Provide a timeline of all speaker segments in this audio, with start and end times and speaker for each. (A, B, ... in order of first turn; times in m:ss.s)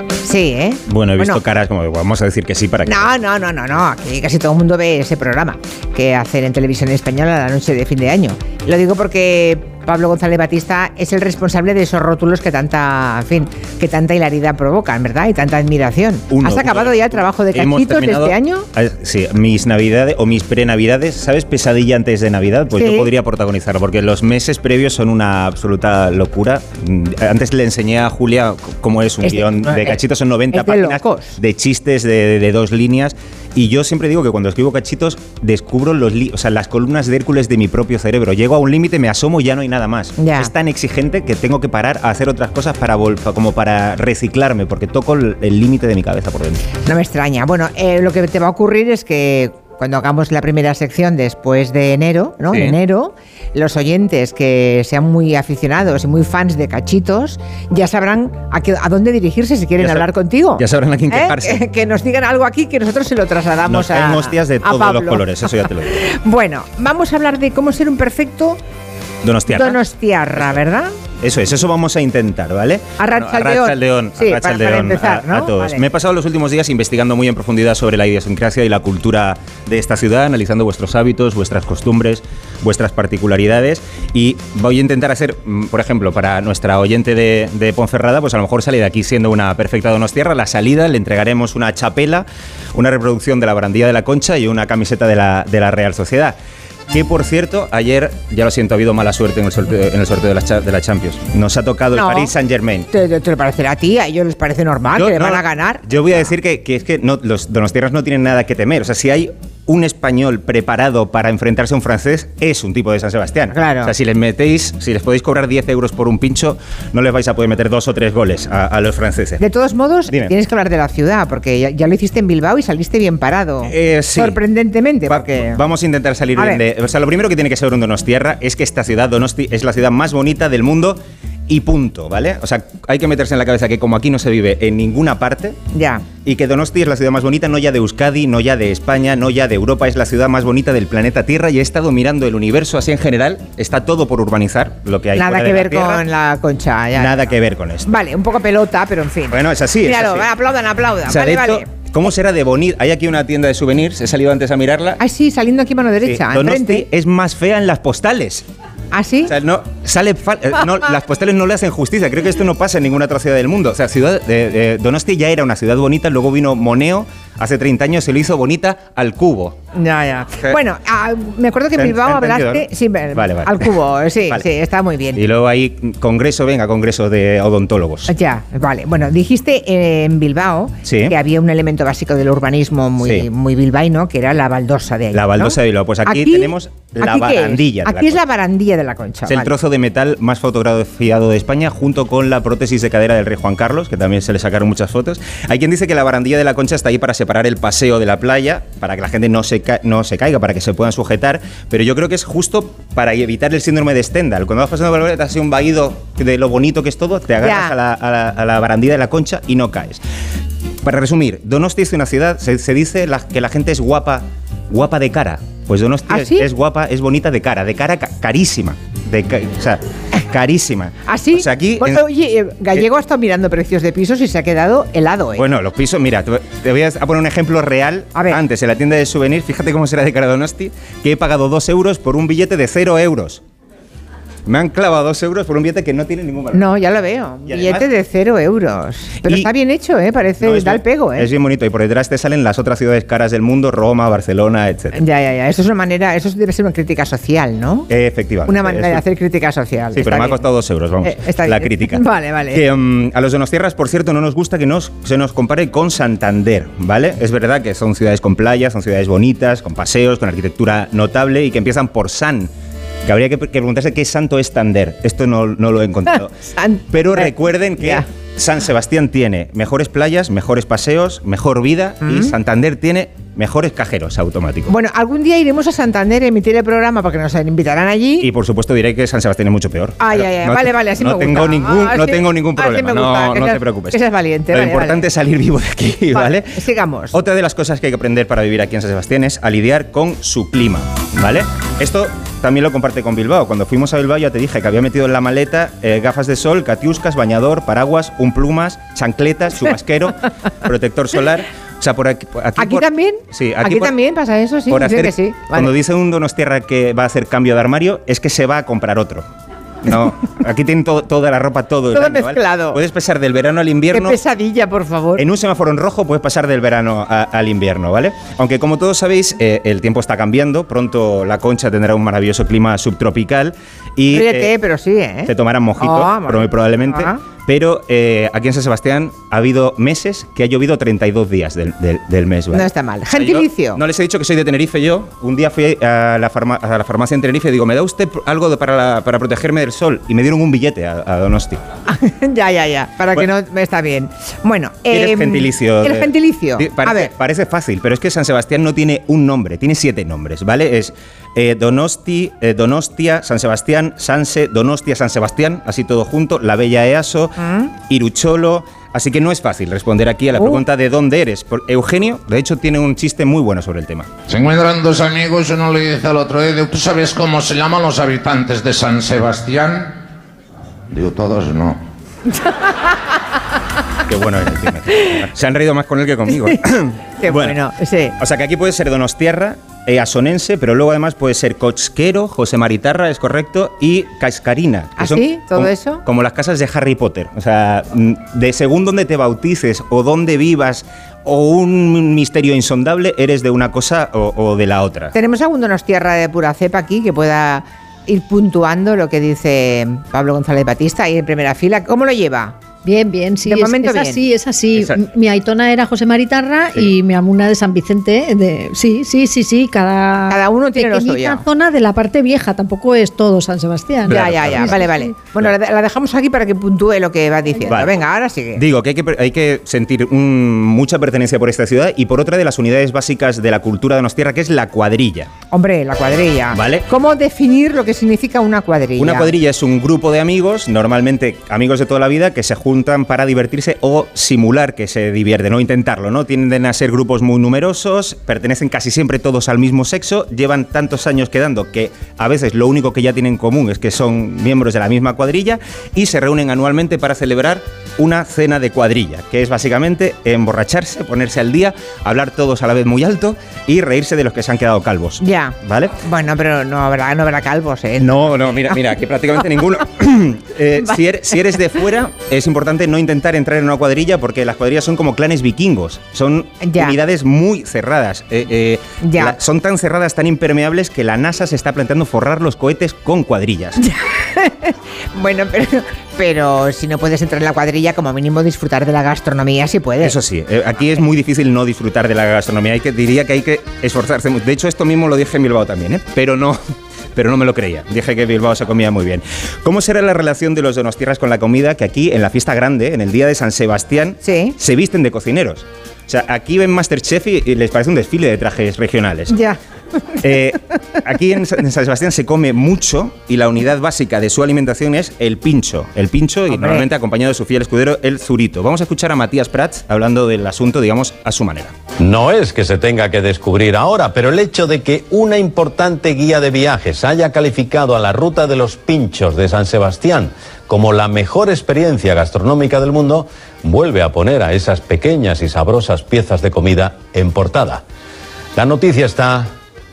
0:00.2-0:01.4 A
0:00.9-0:03.1 B
0:02.9-0:18.7 A
0:16.3-0:46.6 B
0:22.7-0:23.1 A
0:29.2-0:30.0 A
0:30.5-0:31.4 A
0:40.2-0:40.5 A
0:46.9-1:05.3 A
0:52.5-0:52.8 B
0:59.8-1:00.1 B
1:00.6-1:01.6 B
1:03.7-1:06.0 B
1:05.9-1:08.6 A
1:09.2-1:09.8 B
1:09.5-1:10.9 A
1:11.2-1:36.4 B
1:13.0-1:15.8 A
1:36.9-1:42.9 B
1:41.9-1:42.3 A
1:42.9-1:46.3 A
1:44.9-1:59.4 B
1:53.5-1:53.9 A
1:59.4-2:05.6 A
2:00.1-2:00.3 B
2:03.7-2:04.4 B
2:05.1-2:15.6 B
2:06.4-2:06.6 A
2:15.7-2:16.1 A
2:16.2-2:26.0 B
2:25.2-2:27.3 A
2:27.0-2:27.9 B
2:27.8-2:31.7 A
2:29.3-2:30.3 B
2:31.1-2:35.0 B
2:35.0-2:36.9 A
2:36.0-2:38.4 B
2:38.9-2:39.3 A
2:39.3-2:49.6 B
2:49.8-2:55.2 A
2:51.8-2:53.7 B
2:55.2-2:58.1 B
2:58.1-3:09.5 A
3:00.8-3:01.2 B
3:03.0-3:03.3 B
3:05.1-3:08.2 B
3:09.3-3:30.0 B
3:27.4-3:27.7 A
3:30.8-3:42.0 B
3:36.1-3:36.5 A
3:41.1-3:45.4 A
3:45.4-3:53.4 B
3:48.1-3:48.4 A
3:54.5-3:56.6 B
3:56.5-4:01.3 A
3:57.5-3:57.8 B
4:00.4-4:05.0 B
4:04.9-4:07.9 A
4:07.9-4:09.0 B
4:08.5-4:10.4 A
4:10.0-4:22.5 B
4:11.0-4:12.6 A
4:23.1-4:26.3 B
4:26.5-4:28.0 A
4:26.9-4:34.7 B
4:32.0-4:32.4 A
4:34.7-4:38.3 A
4:38.2-4:46.6 B
4:40.0-4:45.0 A
4:46.1-4:47.2 A
4:47.1-5:03.9 B
5:02.6-5:05.7 A
5:04.7-5:09.3 B
5:09.9-5:14.2 B
5:11.9-5:12.8 A
5:13.9-5:15.2 A
5:15.2-5:24.5 B
5:24.1-5:27.2 A
5:25.3-5:41.6 B
5:32.5-5:33.8 A
5:41.9-5:47.1 A
5:44.9-6:04.1 B
6:04.3-6:10.0 C
6:10.9-6:11.8 C
6:12.4-6:12.7 A
6:14.1-6:17.6 B
6:17.2-6:18.2 A
6:18.2-6:35.1 B
6:25.0-6:26.0 A
6:35.1-6:42.6 A
6:42.8-6:55.1 D
6:43.4-6:44.2 A
6:44.7-6:45.0 B
6:50.3-6:51.5 A
6:54.1-6:58.6 A
6:54.1-6:54.8 B
6:57.7-6:57.9 B
6:58.6-7:05.3 B
7:05.5-7:09.3 A
7:06.5-7:06.9 B
7:09.0-7:36.0 B
7:35.2-7:38.1 A
7:38.0-7:53.8 B
7:46.6-7:47.0 A
7:49.0-7:49.4 A
7:53.8-8:00.2 A
8:00.0-8:06.6 B
8:07.2-8:19.3 B
8:14.2-8:14.6 A
8:19.3-8:19.6 A
8:20.2-8:31.7 B
8:26.5-8:26.9 A
8:32.0-8:47.8 E
8:48.6-8:49.5 E